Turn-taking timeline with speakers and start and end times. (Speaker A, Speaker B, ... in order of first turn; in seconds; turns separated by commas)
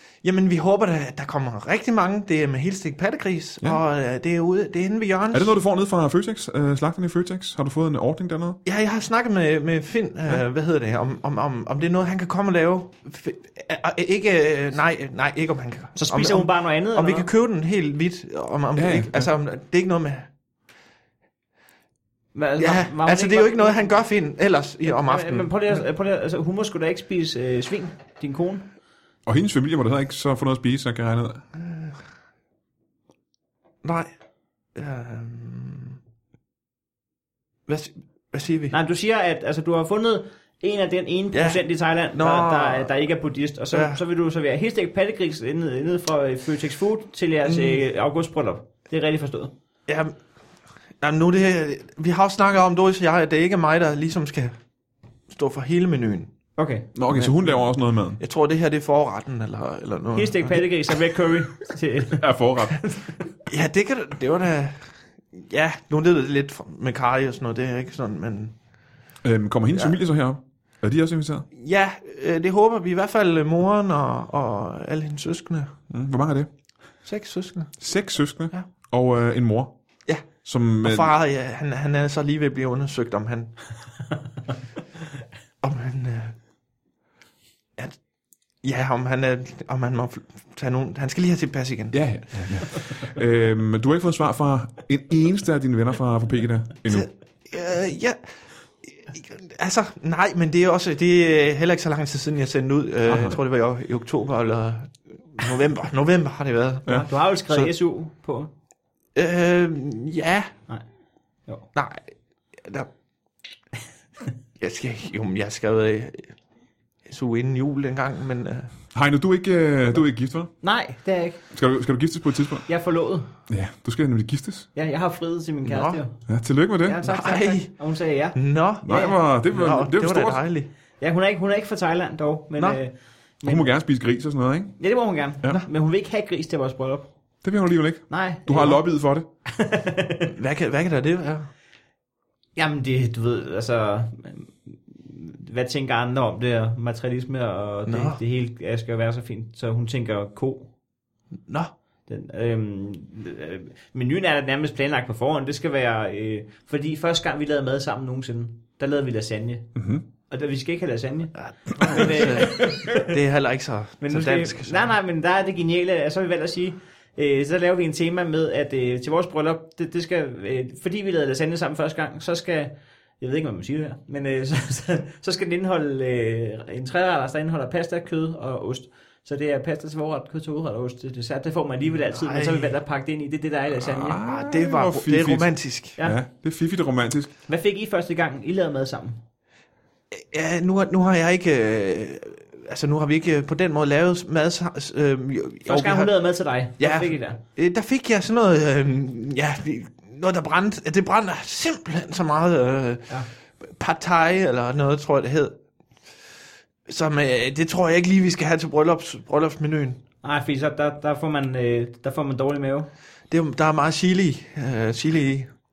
Speaker A: 0.2-5.5, Speaker B: 5.3-8.6, Speaker A: 8.6-20.3, Speaker C: 15.9-17.3, Speaker B: 18.8-19.3, Speaker C: 22.3-24.0, Speaker A: 22.6-25.5, Speaker C: 24.8-28.6, Speaker B: 29.2-31.4, Speaker A: 31.5-32.0, Speaker A: 33.8-34.1, Speaker A: 34.7-36.0, Speaker A: 37.7-38.7, Speaker C: 38.7-49.5, Speaker A: 41.3-41.6, Speaker A: 42.1-42.9, Speaker A: 43.7-44.0, Speaker A: 47.4-47.8, Speaker A: 49.9-50.1, Speaker A: 51.0-54.5, Speaker A: 55.3-56.3, Speaker C: 56.6-56.9, Speaker B: 56.9-58.2, Speaker A: 57.1-57.5, Speaker A: 58.2-60.9, Speaker C: 60.1-63.1, Speaker B: 62.1-62.8, Speaker A: 63.5-68.5, Speaker B: 69.2-71.5, Speaker A: 71.5-75.7, Speaker B: 75.9-76.5, Speaker A: 77.0-77.7, Speaker B: 77.8-79.7, Speaker B: 80.4-81.1, Speaker A: 80.8-83.5, Speaker A: 85.6-86.3, Speaker A: 88.6-92.0, Speaker B: 91.9-97.1, Speaker A: 96.9-98.2, Speaker A: 98.8-107.7, Speaker B: 103.1-103.4, Speaker C: 106.9-108.5, Speaker A: 109.1-110.5, Speaker A: 111.7-112.0, Speaker A: 112.6-112.9, Speaker A: 114.6-116.3, Speaker A: 117.0-118.7, Speaker B: 118.9-120.5, Speaker C: 120.6-121.4, Speaker B: 121.5-122.7, Speaker C: 122.7-123.3, Speaker B: 123.5-124.7, Speaker C: 124.7-126.2, Speaker A: 125.6-126.0, Speaker B: 126.3-127.1, Speaker C: 126.8-129.1, Speaker A: 127.0-127.7, Speaker A: 128.3-130.7, Speaker B: 128.8-130.4, Speaker C: 131.0-133.7, Speaker A: 132.6-132.8, Speaker B: 133.4-134.8, Speaker C: 134.8-137.1, Speaker B: 137.4-139.2, Speaker C: 138.1-138.8, Speaker C: 139.5-140.3, Speaker A: 140.3-141.5, Speaker C: 142.6-150.7, Speaker A: 147.9-148.2, Speaker C: 152.1-159.7, Speaker B: 159.8-160.0, Speaker C: 160.3-163.2, Speaker A: 161.4-164.9, Speaker C: 164.0-184.2, Speaker A: 182.1-182.8, Speaker B: 183.8-187.3, Speaker A: 184.1-186.0, Speaker C: 187.5-189.2, Speaker A: 190.1-196.1, Speaker C: 195.7-197.4, Speaker A: 196.8-205.6, Speaker A: 206.8-210.0, Speaker C: 210.2-212.9, Speaker A: 213.3-215.5